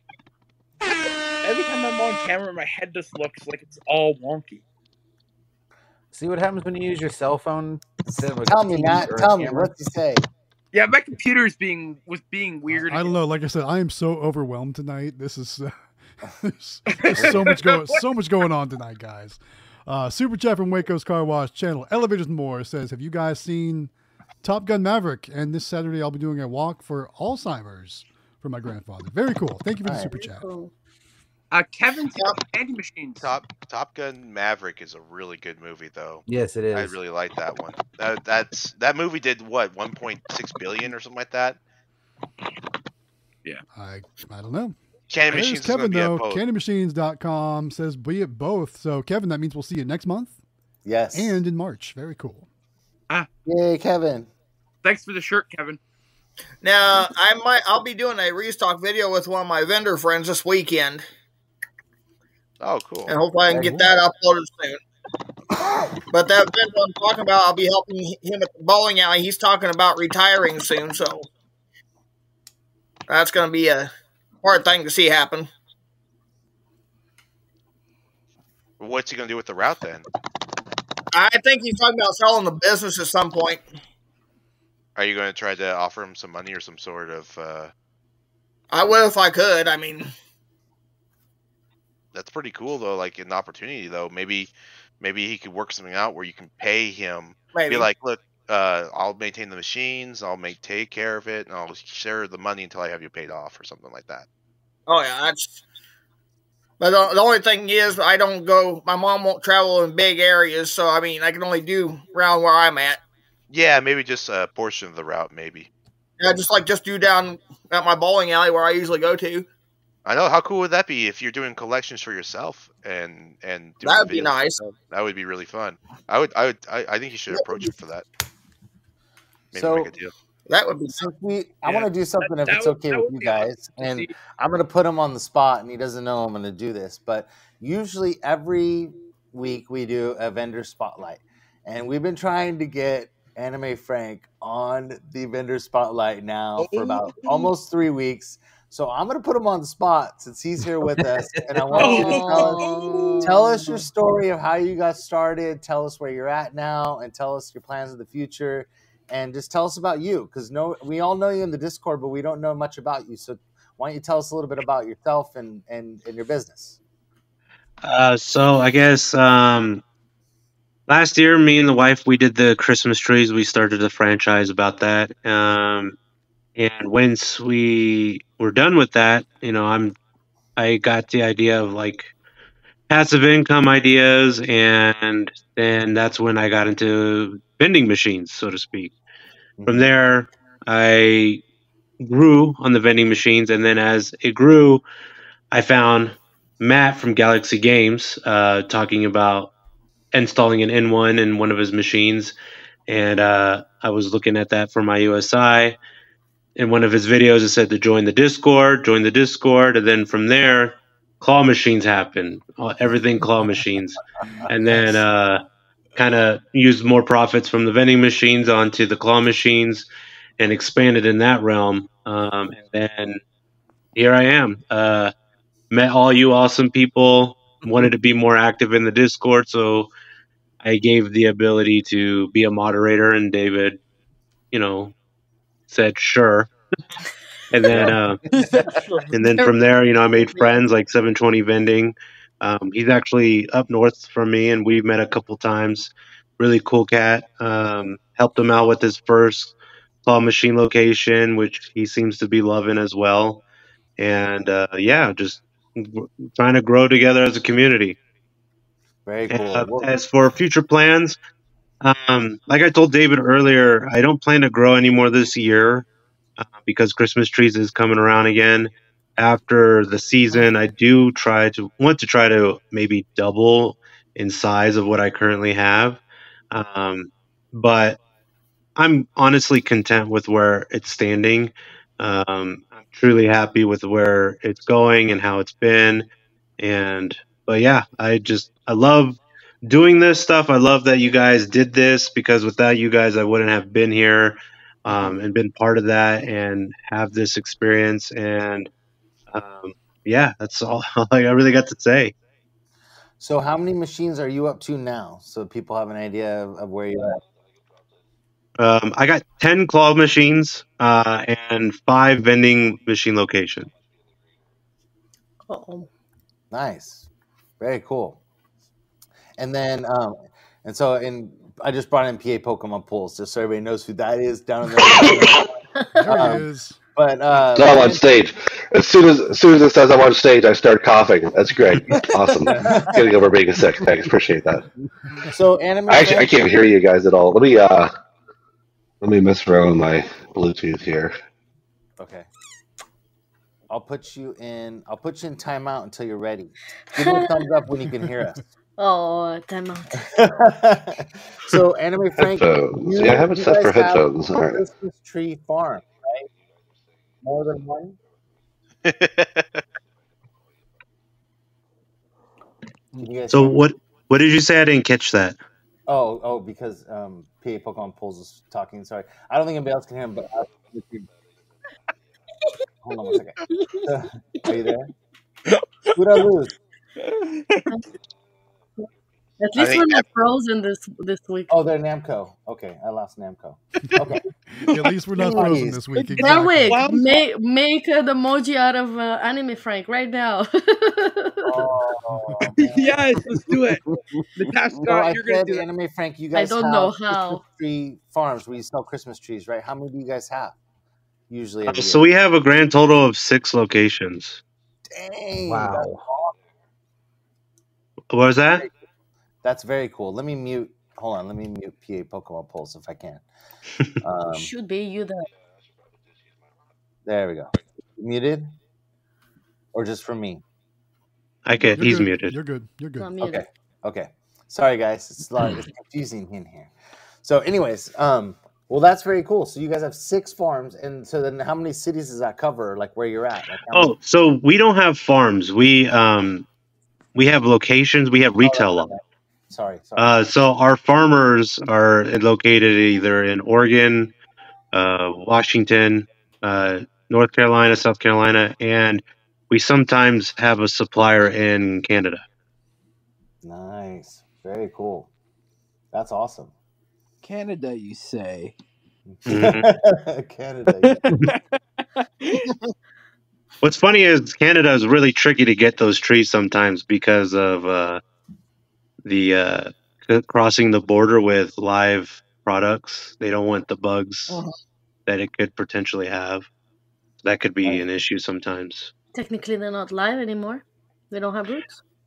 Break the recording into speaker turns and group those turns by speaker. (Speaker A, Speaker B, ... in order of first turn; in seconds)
Speaker A: 1.4-4.6, 10.7-13.2, 16.9-18.0, 31.5-33.3, 54.8-55.8, 131.7-134.1, 146.6-147.5, 151.8-153.3, 237.7-239.5, 375.5-376.2, 377.0-377.7, 384.7-385.0, 386.0-387.2, 392.6-393.8, 394.4-395.6, 457.2-458.6, 460.9-462.5
Speaker B: 6.1-9.7, 36.3-37.0, 150.7-151.6, 405.5-406.0
Speaker C: 8.1-10.3, 17.2-17.4, 29.8-30.1, 50.9-51.4, 53.5-54.3, 63.5-63.9, 129.5-129.9, 131.0-152.6, 153.2-166.8, 189.6-189.9, 214.5-215.0, 259.1-259.9, 303.2-307.2, 316.5-317.1, 317.6-318.2, 319.4-325.5, 326.1-328.0, 332.4-333.1, 335.3-336.4, 342.0-342.3, 343.7-348.4, 350.0-356.3, 357.2-358.0, 362.9-363.6, 365.9-371.1, 372.8-374.9, 375.9-376.5, 381.5-384.2, 385.1-385.9, 391.5-393.3, 394.8-400.6, 401.3-402.1, 404.9-406.3, 409.4-413.2, 414.0-414.5, 417.1-418.5, 419.7-420.4, 423.2-426.7, 427.2-433.9, 438.4-440.1, 453.4-455.1, 455.9-456.5, 459.1-461.1
Speaker D: 12.9-15.7, 16.3-23.9, 24.4-30.5, 43.7-44.8, 45.3-50.4, 51.1-52.5, 325.9-326.8, 384.5-386.9, 421.8-423.1
Speaker E: 30.1-30.7, 151.7-153.8, 315.5-315.9, 347.0-347.4, 348.8-350.1, 379.4-381.5, 386.2-391.5, 396.3-397.4, 414.3-415.3, 423.0-423.4, 479.1-481.8
Speaker F: 33.2-41.6, 45.1-46.4, 62.6-63.1, 78.8-80.1, 85.0-87.7, 92.1-104.3, 113.5-115.7, 120.1-128.1, 129.5-130.1, 358.9-359.5, 379.6-380.0
Speaker G: 56.6-61.0, 63.1-64.8, 66.1-71.3, 73.1-73.9, 74.4-75.5, 81.1-83.6, 88.7-90.1, 97.5-97.9, 104.9-105.6, 106.8-113.0, 116.2-119.5, 123.8-124.6, 127.3-127.7, 130.5-131.1
Speaker H: 167.8-169.8, 170.9-176.0, 176.6-180.0, 180.6-182.1, 182.9-188.9, 189.7-191.4, 192.0-194.8, 195.5-199.5, 200.1-202.4, 202.9-205.8, 206.6-215.4, 216.0-219.9, 220.4-223.2, 223.9-225.1, 225.7-229.9, 230.6-233.8, 234.5-234.9, 235.7-236.5, 237.5-238.2, 239.1-253.4, 254.0-258.0, 259.3-261.2, 261.8-265.9, 266.4-278.0, 278.8-298.7, 299.3-302.1, 308.6-313.7, 363.3-365.4, 401.7-404.4, 408.1-408.7, 421.5-422.4, 433.7-436.5, 437.1-438.9, 440.0-444.1, 444.7-452.2, 459.3-459.7, 463.6-468.0, 469.0-474.4, 475.1-476.5, 477.2-478.9
Speaker I: 327.5-334.7, 335.9-337.9, 339.0-341.1, 352.2-354.6